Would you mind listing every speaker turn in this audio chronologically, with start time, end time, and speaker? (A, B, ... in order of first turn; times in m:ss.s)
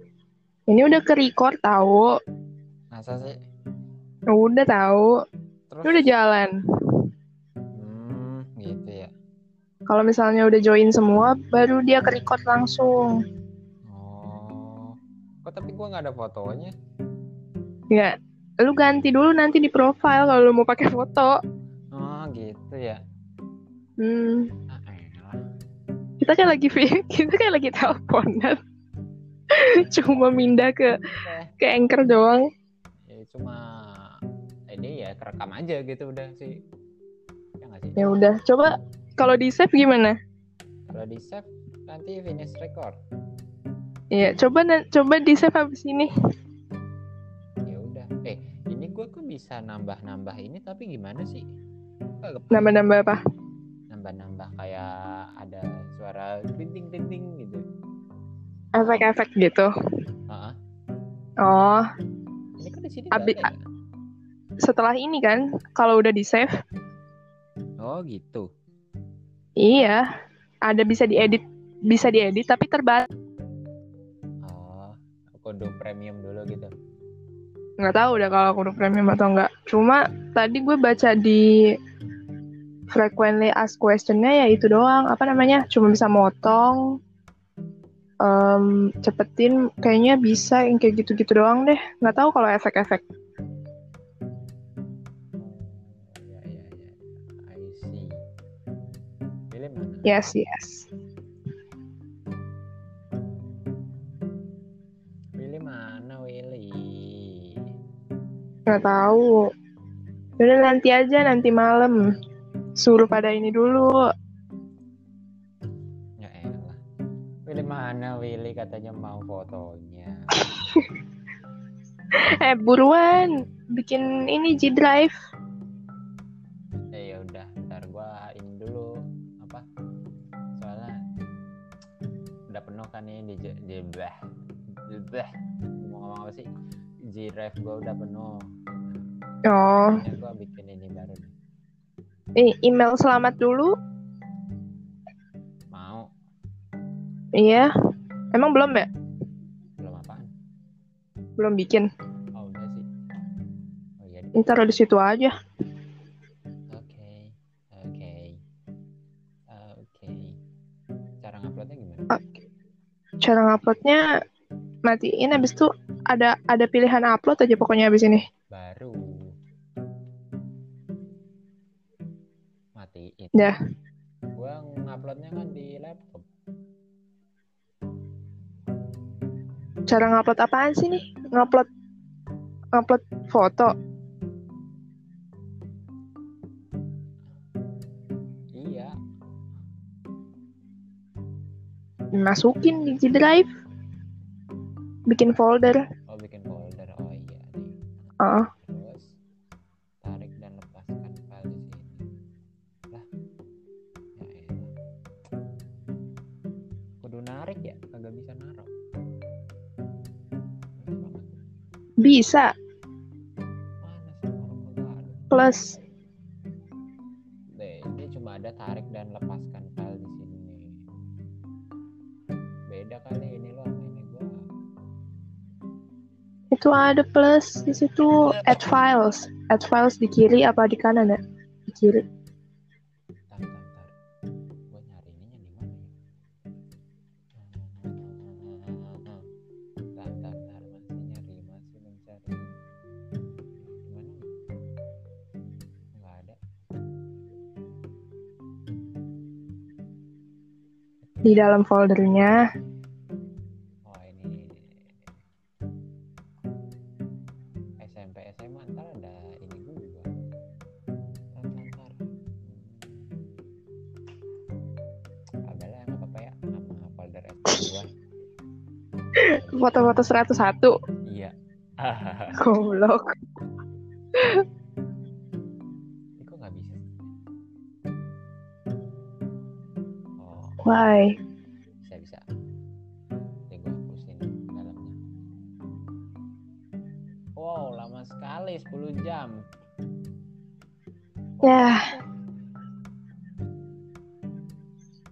0:00.7-0:02.0 A
0:02.9-0:03.4 B
0:04.3-0:05.1 A
0:05.7-0:06.1 B
0:05.8-0:06.5 A
0:07.8-0:09.1 B
0:09.9-0:13.2 A
0:13.9-0:16.7 B
0:17.9-0:21.4 A
0:21.9-0:23.0 B
0:24.0-0:24.5 A
0:24.7-0:25.4 B
0:26.2-0:28.6 A
0:29.6-0:31.0 A
0:29.9-0:30.6 B
0:31.2-0:31.5 B
0:31.6-0:32.4 A
0:33.1-0:34.1 B
0:34.7-0:36.6 B
0:37.6-0:38.0 B
0:38.0-0:40.2 A
0:40.9-0:43.0 B
0:44.1-0:46.1 A
0:47.7-0:51.4 B
0:52.2-0:52.8 B
0:52.5-0:53.2 A
0:53.9-0:54.9 B
0:55.4-0:57.6 B
0:58.8-0:59.7 A
1:00.3-1:00.6 B
1:01.4-1:01.9 A
1:02.6-1:03.6 B
1:03.1-1:03.4 A
1:04.6-1:06.5 A
1:07.8-1:08.5 B
1:09.6-1:10.0 A
1:10.7-1:13.1 A
1:14.5-1:16.7 B
1:17.8-1:21.4 A
1:22.9-1:26.8 A
1:28.2-1:33.0 A
1:35.4-1:38.1 B
1:39.5-1:40.2 B
1:40.1-1:40.9 A
1:45.4-1:47.4 B
1:48.7-1:49.3 A
1:50.4-1:52.0 A
1:52.8-1:54.0 A
1:56.2-1:56.8 B
1:57.5-2:00.4 B
2:02.4-2:05.2 A
2:06.9-2:08.9 B
2:10.6-2:10.9 B
2:12.5-2:14.2 B
2:14.9-2:15.3 B
2:15.8-2:16.5 B
2:17.1-2:19.0 B
2:19.5-2:20.0 A
2:20.0-2:21.3 B
2:22.4-2:23.7 A
2:25.7-2:26.1 B
2:27.4-2:27.7 A
2:28.3-2:28.9 A
2:29.8-2:30.3 B
2:31.4-2:31.9 A
2:32.4-2:32.9 B
2:34.0-2:34.3 B
2:34.4-2:35.3 A
2:36.7-2:38.4 B
2:39.5-2:40.4 B
2:41.2-2:42.1 B
2:43.2-2:44.0 A
2:44.9-2:48.2 A
2:48.5-2:49.0 B
2:52.8-2:53.5 B
2:54.4-2:56.2 B
2:59.9-3:01.7 A
3:02.8-3:03.7 A
3:08.5-3:08.9 B
3:12.2-3:13.5 A
3:15.1-3:15.8 A
3:16.1-3:17.7 B
3:18.2-3:18.5 A
3:18.6-3:19.0 B
3:20.0-3:22.0 B
3:24.2-3:24.7 B
3:27.0-3:28.7 B
3:30.8-3:31.4 B
3:32.0-3:32.5 A
3:33.8-3:35.3 B
3:35.3-3:35.7 A
3:37.6-3:40.6 B
3:42.7-3:44.3 B
3:46.5-3:51.2 A
3:51.7-3:52.0 A
3:53.3-3:53.9 B
3:54.7-3:55.9 B
3:57.4-3:59.2 B
4:00.0-4:02.5 B
4:03.8-4:04.3 B
4:05.9-4:06.4 B
4:11.1-4:11.5 B
4:11.2-4:12.4 A
4:13.9-4:14.8 B
4:17.8-4:20.1 B
4:21.3-4:23.1 B
4:25.5-4:27.9 B
4:29.2-4:30.7 A
4:29.3-4:29.9 B
4:31.1-4:32.4 B
4:32.4-4:33.0 A
4:36.2-4:36.8 B
4:40.2-4:40.6 B
4:40.6-4:41.1 A
4:41.8-4:42.2 B
4:43.5-4:45.0 B
4:47.4-4:49.3 B
4:51.4-4:51.8 A